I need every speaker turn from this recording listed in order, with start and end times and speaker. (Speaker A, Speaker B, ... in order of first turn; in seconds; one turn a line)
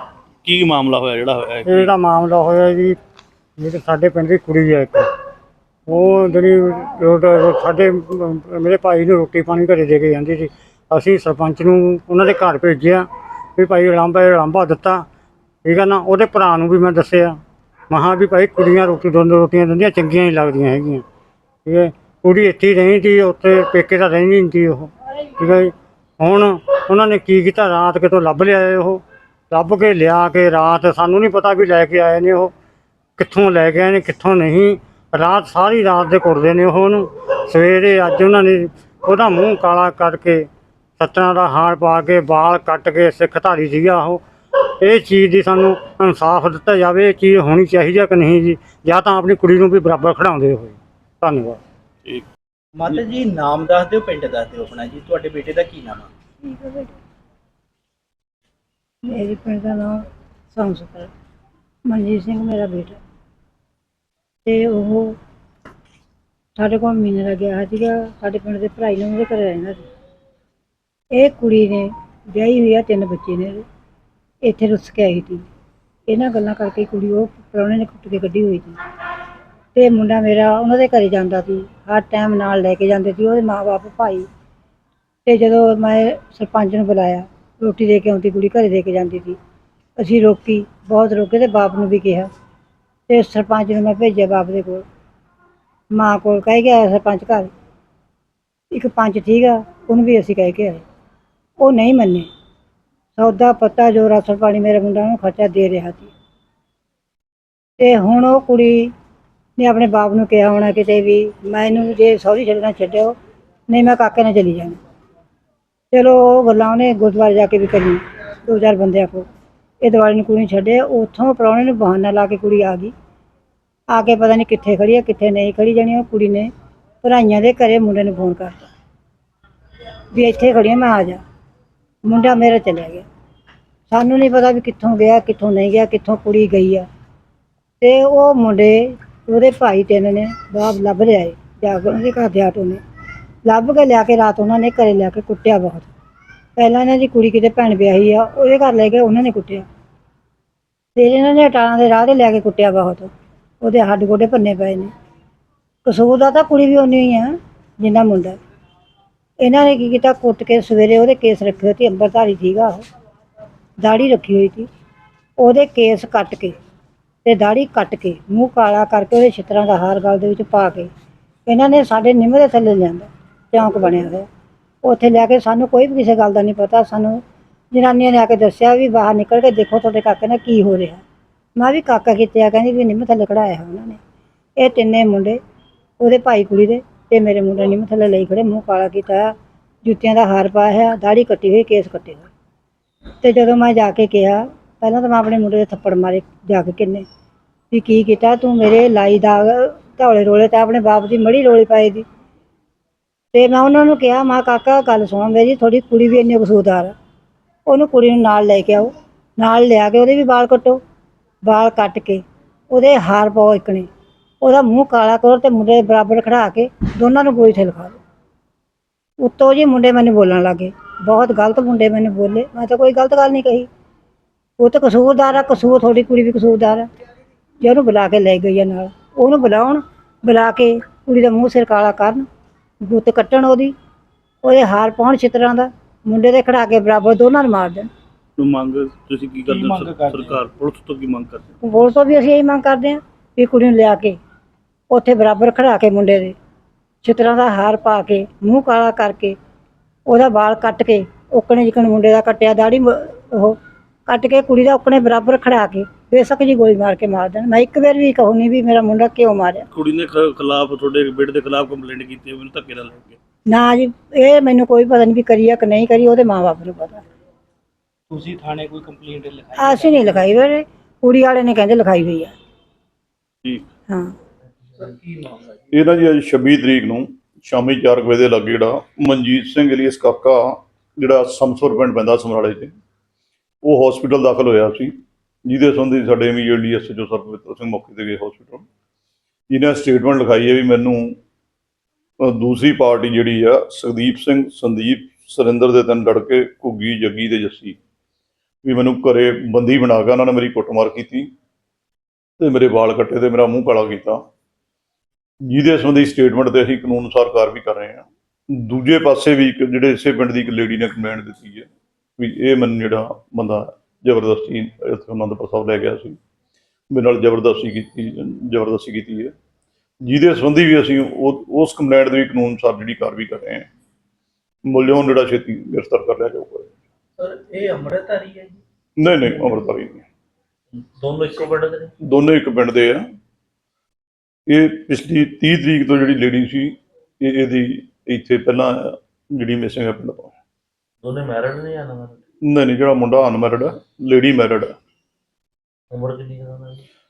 Speaker A: 0.4-1.9
Speaker B: 1.6-3.0
Speaker B: 3.6-5.1
Speaker B: 5.9-15.1
Speaker B: 15.7-21.1
Speaker B: 21.6-32.5
Speaker B: 33.2-51.6
Speaker C: 52.8-56.1
Speaker D: 56.4-56.9
Speaker D: 59.1-61.1
Speaker D: 61.9-63.0
Speaker D: 64.5-65.2
Speaker D: 66.6-69.8
Speaker D: 71.2-73.6
Speaker D: 74.4-75.5
Speaker D: 76.1-78.8
Speaker D: 79.8-84.3
Speaker D: 85.3-89.4
Speaker D: 90.0-92.3
Speaker D: 93.1-94.8
Speaker D: 96.0-97.5
Speaker D: 98.7-100.8
Speaker D: 101.6-102.3
Speaker D: 103.2-106.1
Speaker D: 107.8-108.9
Speaker D: 109.6-113.2
Speaker D: 113.7-114.8
Speaker D: 115.9-119.3
Speaker D: 119.8-122.9
Speaker D: 123.9-126.5
Speaker D: 127.0-128.7
Speaker D: 130.1-131.2
Speaker D: 132.1-133.1
Speaker D: 133.9-136.9
Speaker D: 137.8-142.8
Speaker D: 143.5-145.9
Speaker D: 146.6-149.7
Speaker D: 151.0-154.9
Speaker D: 155.8-158.4
Speaker D: 159.4-162.8
Speaker D: 163.8-164.7
Speaker D: 165.4-166.6
Speaker D: 167.2-170.9
Speaker D: 171.5-174.3
Speaker D: 174.8-177.2
Speaker D: 177.7-181.0
Speaker D: 181.6-184.0
Speaker D: 184.6-185.4
Speaker D: 186.0-192.3
Speaker D: 193.2-197.1
Speaker D: 197.7-202.1
Speaker D: 203.3-206.9
Speaker D: 207.7-210.8
Speaker D: 211.4-213.9
Speaker D: 214.4-218.0
Speaker D: 219.2-223.7
Speaker D: 224.6-226.9
Speaker D: 227.6-232.3
Speaker D: 232.8-233.7
Speaker D: 234.4-237.9
Speaker A: 238.4-241.4
Speaker C: 239.5-240.4
Speaker D: 241.6-244.2
Speaker D: 244.9-246.3
Speaker D: 247.0-249.3
Speaker D: 250.1-259.7
Speaker A: 259.7-263.2
Speaker D: 263.5-267.0
Speaker C: 268.1-270.5
Speaker D: 269.6-272.4
Speaker C: 274.8-275.6
Speaker E: 275.7-282.8
Speaker E: 283.6-284.9
Speaker E: 285.5-288.7
Speaker E: 289.5-291.2
Speaker E: 292.2-297.8
Speaker E: 298.6-301.3
Speaker E: 302.4-304.2
Speaker E: 305.5-316.2
Speaker E: 316.9-319.3
Speaker E: 320.0-323.7
Speaker E: 324.7-326.7
Speaker C: 327.2-328.6
Speaker E: 329.0-330.0
Speaker F: 330.7-331.9
Speaker E: 332.0-333.0
Speaker E: 334.5-340.3
Speaker F: 341.0-342.2
Speaker E: 342.5-344.8
Speaker F: 345.9-346.8